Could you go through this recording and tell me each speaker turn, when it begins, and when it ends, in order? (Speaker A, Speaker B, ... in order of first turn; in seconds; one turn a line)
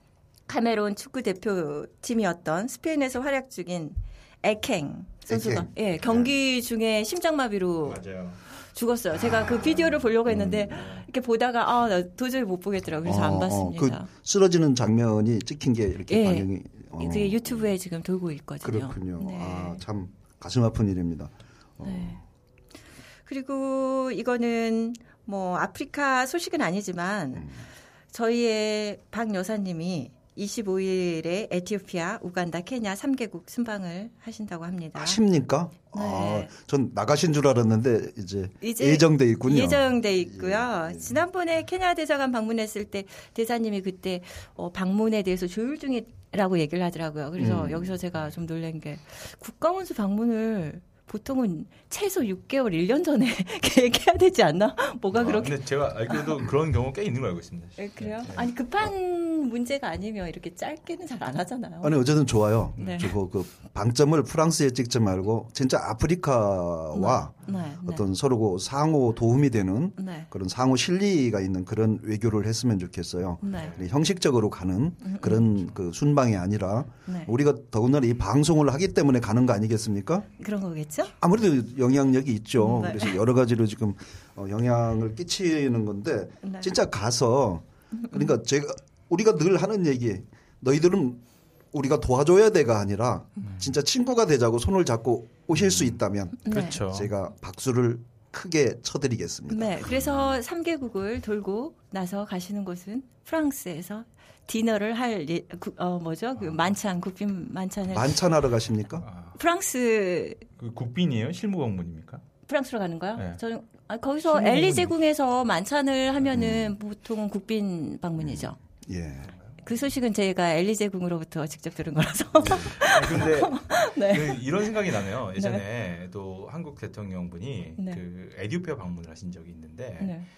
Speaker A: 0.5-8.0
Speaker B: 5.3-6.3
Speaker C: 7.8-8.4
Speaker A: 8.5-14.1
Speaker B: 9.2-11.0
Speaker C: 10.8-11.1
Speaker B: 13.0-17.8
Speaker A: 16.1-19.8
Speaker B: 18.6-22.2
Speaker A: 21.8-22.2
Speaker A: 23.3-27.5
Speaker B: 27.3-27.7
Speaker A: 28.1-35.2
Speaker B: 35.0-41.2
Speaker A: 35.9-36.5
Speaker A: 38.6-56.4
Speaker B: 47.4-48.0
Speaker C: 55.1-58.4
Speaker A: 57.8-62.0
Speaker B: 61.8-80.3
Speaker C: 62.8-63.1
Speaker A: 62.8-63.1
Speaker A: 66.9-68.1
Speaker A: 70.0-70.3
Speaker A: 73.4-73.8
Speaker C: 73.5-73.8
Speaker A: 75.0-75.5
Speaker A: 77.1-77.3
Speaker A: 80.4-81.1
Speaker B: 81.2-91.2
Speaker A: 82.6-83.2
Speaker A: 86.4-86.8
Speaker A: 87.9-88.3
Speaker B: 91.7-99.9
Speaker C: 93.4-93.7
Speaker C: 95.5-96.0
Speaker A: 96.5-96.8
Speaker C: 96.5-97.1
Speaker A: 99.5-108.3
Speaker C: 99.9-100.3
Speaker B: 107.9-109.1
Speaker C: 109.0-109.4
Speaker A: 109.4-110.4
Speaker C: 110.6-112.2
Speaker A: 112.5-118.6
Speaker C: 114.2-114.9
Speaker B: 116.3-116.8
Speaker B: 118.2-119.3
Speaker A: 119.6-124.5
Speaker C: 122.4-130.2
Speaker A: 125.4-125.6
Speaker A: 130.0-130.3